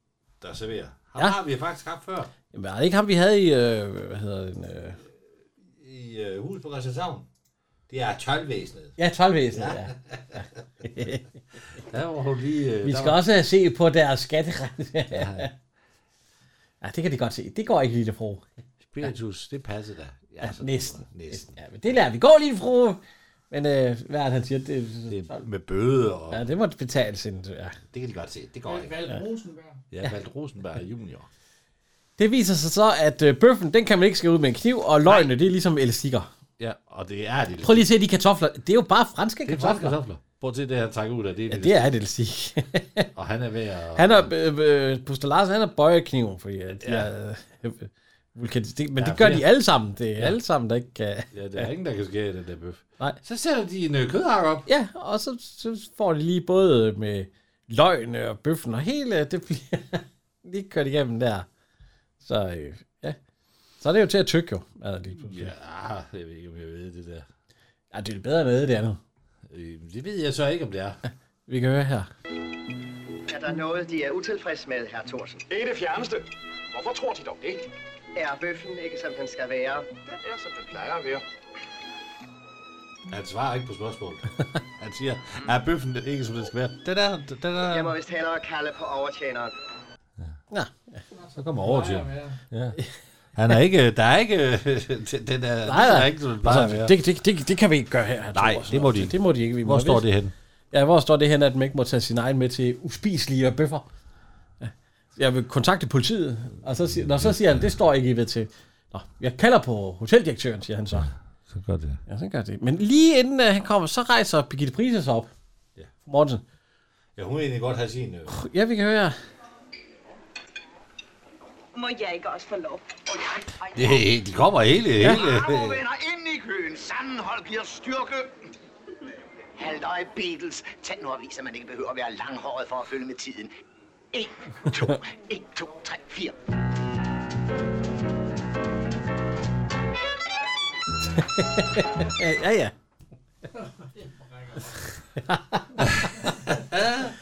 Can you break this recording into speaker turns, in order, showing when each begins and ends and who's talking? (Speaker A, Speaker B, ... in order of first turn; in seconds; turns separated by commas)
Speaker A: 0.4-2.3, Speaker B: 2.5-5.0, Speaker A: 5.7-7.3, Speaker A: 7.9-8.9, Speaker B: 9.0-9.9, Speaker A: 9.5-10.4, Speaker B: 10.8-11.2, Speaker A: 11.8-13.2, Speaker B: 12.8-15.5, Speaker A: 15.1-15.5, Speaker B: 16.8-18.4, Speaker A: 18.8-21.6, Speaker B: 20.4-23.0, Speaker B: 23.5-25.4, Speaker A: 25.1-26.4, Speaker B: 26.3-27.8, Speaker A: 27.9-29.1, Speaker C: 28.7-29.9, Speaker A: 29.9-31.3, Speaker B: 32.2-36.3, Speaker A: 35.1-35.3, Speaker A: 36.6-37.9, Speaker B: 37.6-40.0, Speaker A: 39.5-41.9, Speaker B: 41.5-43.1, Speaker A: 43.1-44.3, Speaker B: 44.0-51.7, Speaker A: 46.8-47.1, Speaker A: 49.0-49.5, Speaker A: 51.3-54.7, Speaker B: 54.7-61.5, Speaker B: 62.2-63.2, Speaker B: 63.8-65.5, Speaker A: 65.2-67.3, Speaker B: 67.9-69.0, Speaker A: 69.5-71.0, Speaker B: 71.5-72.1, Speaker D: 73.3-75.4, Speaker E: 75.5-77.7, Speaker D: 78.2-79.8, Speaker E: 80.0-81.2, Speaker A: 83.1-84.3, Speaker A: 84.8-88.0, Speaker D: 87.7-89.5, Speaker B: 90.5-91.0, Speaker C: 91.1-92.4, Speaker A: 91.4-92.8, Speaker A: 93.3-97.0, Speaker B: 95.7-100.1, Speaker A: 98.3-100.3, Speaker B: 100.7-103.9, Speaker B: 104.6-111.1, Speaker A: 107.1-107.3, Speaker A: 111.0-112.0, Speaker B: 112.1-115.3, Speaker B: 116.1-116.4, Speaker A: 117.2-118.3, Speaker B: 118.3-119.2, Speaker F: 121.7-123.7, Speaker A: 123.8-125.8, Speaker D: 125.0-128.3, Speaker D: 129.6-133.5, Speaker D: 134.1-136.3, Speaker B: 141.2-142.7, Speaker C: 143.5-145.0, Speaker B: 145.2-145.8, Speaker A: 146.7-147.0